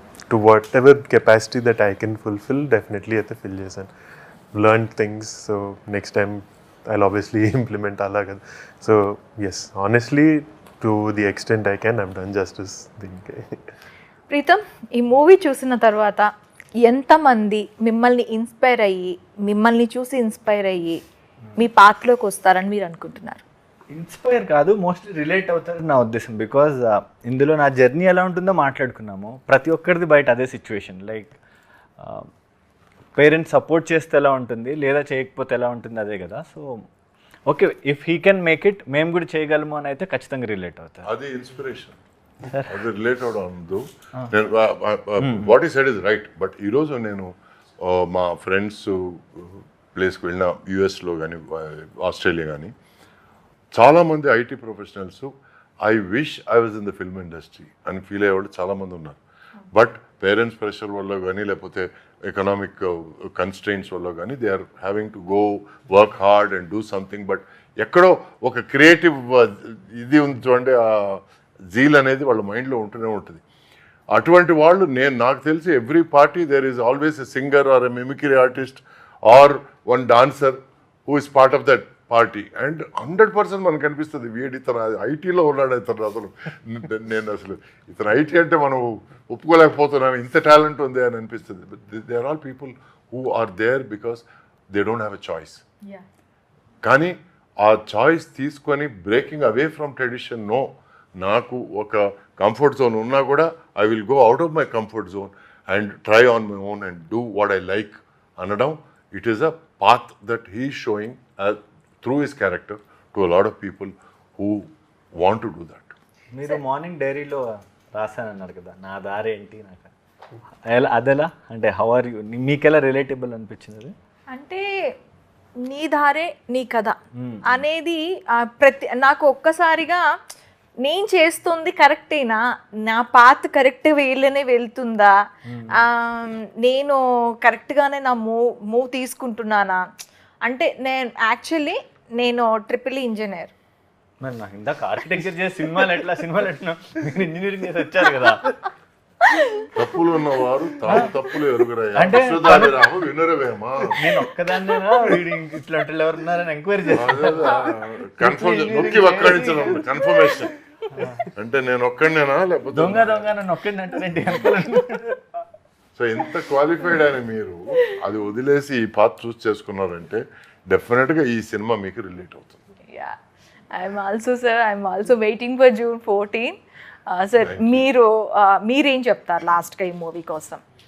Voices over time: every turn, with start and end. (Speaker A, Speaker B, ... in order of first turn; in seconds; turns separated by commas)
Speaker A: 0.3-3.9, Speaker A: 4.5-13.7, Speaker B: 14.3-16.3, Speaker B: 16.8-21.0, Speaker B: 21.6-23.4, Speaker C: 23.9-31.4, Speaker C: 32.0-32.3, Speaker C: 33.1-36.8, Speaker C: 37.5-41.1, Speaker D: 41.0-42.0, Speaker C: 42.5-42.8, Speaker D: 42.7-52.7, Speaker C: 45.2-45.5, Speaker D: 53.8-55.3, Speaker D: 55.9-59.2, Speaker D: 59.7-73.4, Speaker D: 74.1-95.6, Speaker D: 96.8-115.9, Speaker C: 116.3-119.9, Speaker C: 120.7-123.9, Speaker B: 124.3-124.7, Speaker B: 125.6-130.0, Speaker C: 127.2-127.6, Speaker B: 130.8-135.1, Speaker C: 135.5-135.9, Speaker B: 135.7-139.8, Speaker B: 140.5-143.5, Speaker C: 144.2-148.6, Speaker B: 149.3-149.7, Speaker D: 149.8-154.0, Speaker C: 152.0-152.8, Speaker C: 154.0-160.0, Speaker D: 156.9-160.5, Speaker C: 160.9-161.3, Speaker D: 161.3-163.3, Speaker C: 162.7-165.2, Speaker D: 166.0-172.6, Speaker B: 172.9-173.2, Speaker B: 173.7-176.6, Speaker B: 177.1-180.6, Speaker D: 177.4-177.9